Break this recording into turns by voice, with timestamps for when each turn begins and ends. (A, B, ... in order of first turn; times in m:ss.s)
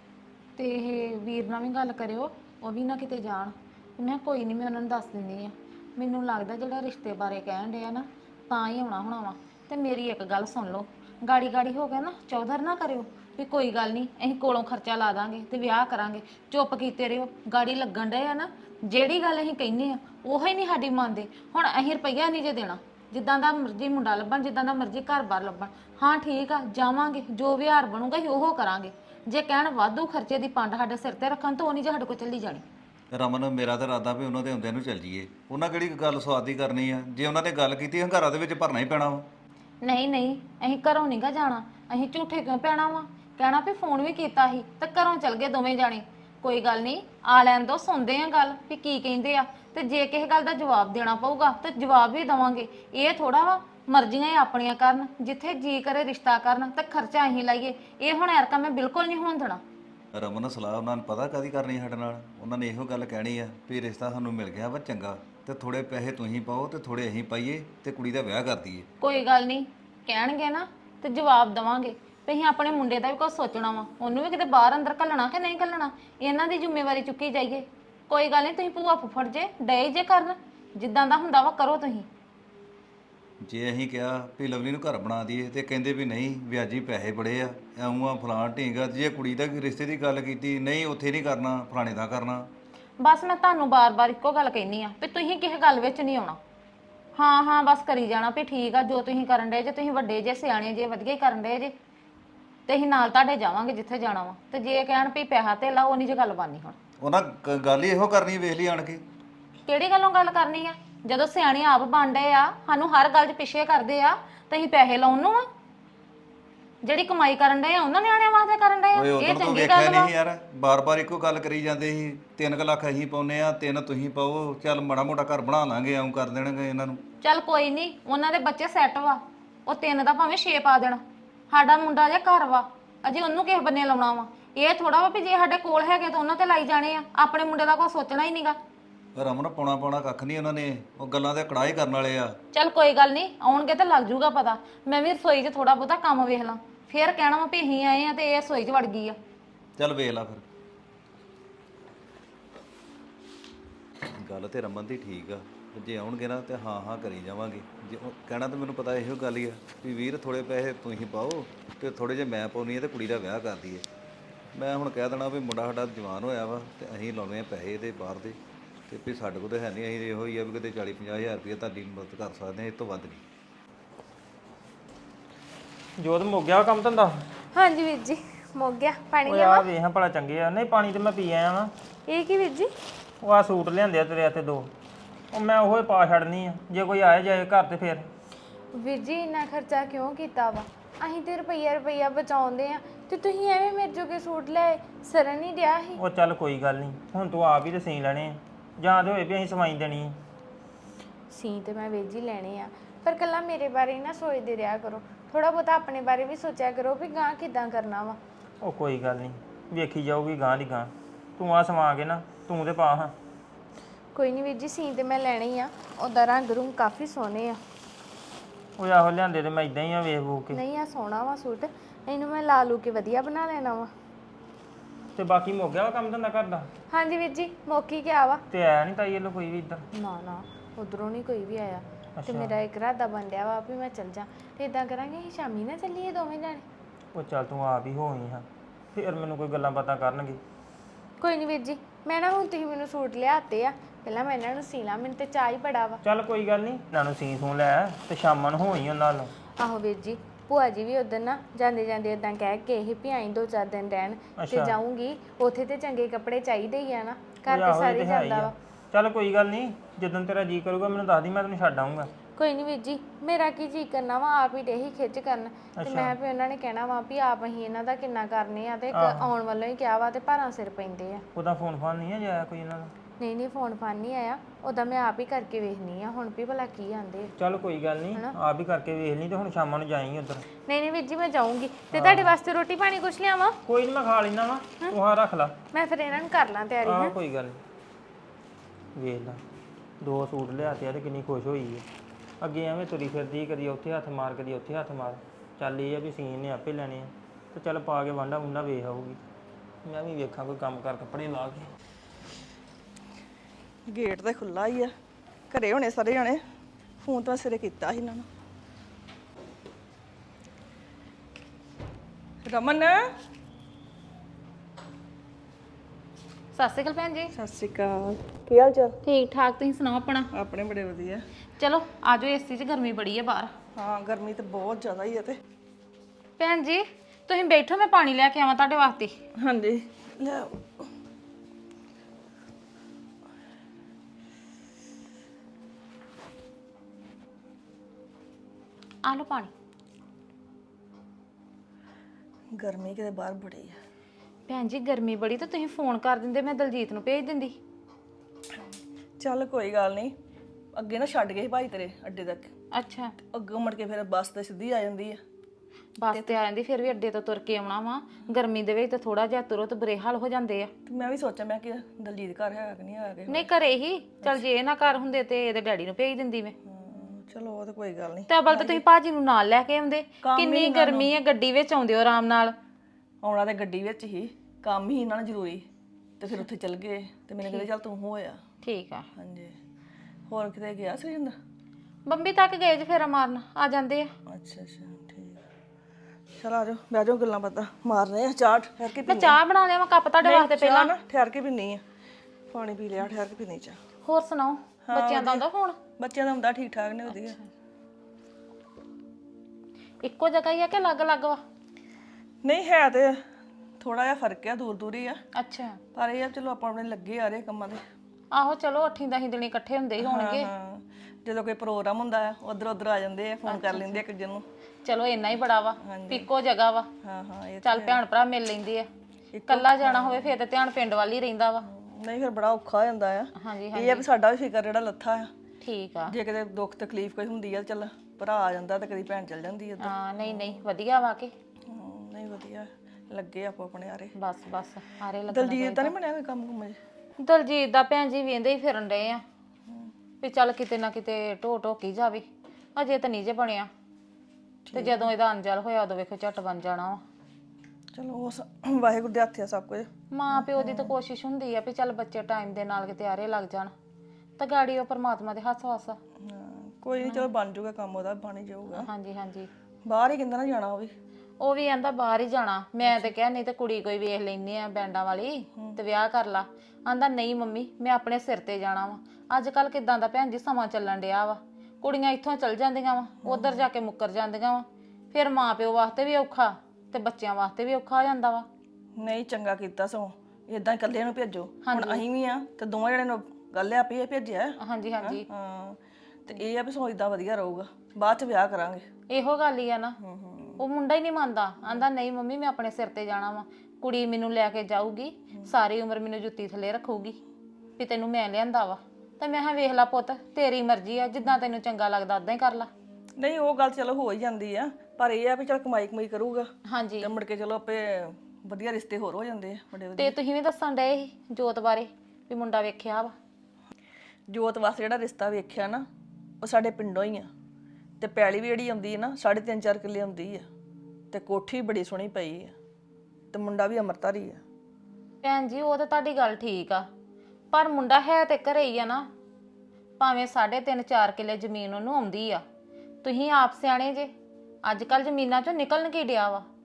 0:00.6-0:32.6 A
0:33.1-0:39.3 B
0:39.8-0:59.6 A
1:00.1-1:08.9 B
1:09.0-1:22.1 A
1:23.4-1:32.5 B
1:33.0-1:36.4 A
1:37.2-1:41.7 A
1:42.7-1:46.8 A
1:47.0-1:49.0 B
1:49.6-1:55.4 A
1:56.8-2:00.1 A
1:58.9-2:07.0 B
2:07.2-2:18.6 A
2:19.1-2:22.4 B
2:22.5-2:29.2 A
2:29.8-2:30.4 B
2:34.1-2:43.8 B
2:44.5-2:48.4 B
2:48.9-2:53.2 B
2:56.0-2:57.2 C
2:57.5-2:59.7 D
2:59.2-3:01.7 C
3:02.1-3:02.7 D
3:03.2-3:04.7 C
3:05.3-3:08.1 C
3:08.7-3:16.0 D
3:15.9-3:20.1 C
3:21.3-3:28.2 D
3:28.6-3:33.1 C
3:34.1-3:37.6 D
3:38.8-3:40.6 C
3:40.5-3:43.9 D
3:45.2-3:46.7 C
3:46.9-3:48.4 D
3:48.5-3:49.8 C
3:49.9-3:56.6 D
3:52.2-3:52.6 C
3:57.1-4:00.4 C
4:01.2-4:06.0 D
4:06.0-4:09.3 C
4:09.6-4:18.5 D
4:14.4-4:14.8 C
4:17.4-4:22.1 C
4:22.4-4:31.2 D
4:25.8-4:26.2 C
4:28.9-4:29.3 C
4:31.3-4:32.9 C
4:33.2-4:37.3 D
4:37.4-4:40.4 C
4:40.6-4:43.6 D
4:41.9-4:42.4 C
4:43.6-4:45.5 C
4:45.7-4:47.1 D
4:46.8-4:47.6 C
4:49.0-4:49.4 C
4:50.0-4:51.8 C
4:52.4-4:59.2 C
4:59.8-5:01.7 C
5:03.9-5:04.9 E
5:05.5-5:06.4 E
5:07.0-5:08.2 E
5:12.4-5:13.0 E
5:16.5-5:17.3 A
5:17.3-5:18.9 E
5:19.0-5:20.3 A
5:20.4-5:21.2 E
5:21.6-5:23.5 A
5:23.8-5:25.4 E
5:26.4-5:29.1 A
5:29.4-5:30.8 E
5:39.0-5:39.5 A
5:42.6-5:43.8 E
5:44.5-5:47.6 A
5:49.2-5:50.1 E
5:50.8-5:52.5 E
5:52.7-5:53.1 A
5:53.3-5:55.2 E
5:56.0-6:00.7 A
6:00.8-6:03.5 E
6:03.3-6:06.5 A
6:06.7-6:08.8 E
6:08.3-6:12.5 A
6:10.2-6:11.1 E
6:13.2-6:15.6 E
6:16.2-6:18.4 E
6:18.6-6:19.0 A
6:19.2-6:19.5 E
6:20.3-6:21.3 E
6:22.1-6:24.1 A
6:24.3-6:25.4 E
6:26.4-6:29.3 E
6:29.1-6:30.9 A
6:30.2-6:31.8 E
6:32.5-6:33.8 E
6:34.0-6:35.8 A
6:34.8-6:35.4 E
6:36.0-6:37.4 E
6:37.1-6:37.4 A
6:40.0-6:41.4 A
6:42.4-6:43.2 E
6:43.8-6:45.2 E
6:45.3-6:45.8 A
6:45.9-6:47.8 E
6:48.3-6:50.5 A
6:50.0-6:54.4 E
6:53.4-6:54.0 A
6:54.8-6:56.9 A
6:55.8-6:56.3 E
6:57.0-6:58.0 E
6:57.6-6:58.9 A
6:59.3-7:00.3 E
6:59.5-7:01.6 A
7:01.6-7:05.3 E
7:03.4-7:04.0 A
7:05.6-7:06.1 A
7:06.1-7:10.6 E
7:09.8-7:11.3 A
7:11.7-7:14.1 E
7:14.2-7:15.9 A
7:15.3-7:16.8 E
7:17.2-7:19.2 A
7:20.2-7:22.2 A
7:22.8-7:23.7 A
7:24.6-7:25.0 E
7:24.7-7:27.0 A
7:27.9-7:30.9 E
7:30.1-7:33.7 A
7:34.4-7:36.0 A
7:36.2-7:38.9 E
7:38.7-7:39.5 A
7:39.8-7:40.9 E
7:41.4-7:58.5 A
7:42.8-7:43.1 E
7:53.2-7:53.6 E
7:59.0-8:08.8 E
8:01.6-8:02.0 A
8:04.6-8:05.2 A
8:09.1-8:10.0 A
8:10.0-8:10.6 E
8:10.6-8:17.2 A
8:17.8-8:22.7 A
8:23.2-8:26.5 E
8:26.7-8:27.1 A
8:27.0-8:30.1 E
8:30.0-8:33.1 A
8:34.3-8:35.8 E
8:36.4-8:37.3 E
8:38.0-8:40.4 E
8:41.1-8:42.5 E
8:43.3-8:44.4 E
8:45.2-8:46.9 A
8:47.5-8:49.1 A
8:50.0-8:52.4 A
8:53.0-8:54.1 A
8:54.6-8:56.4 A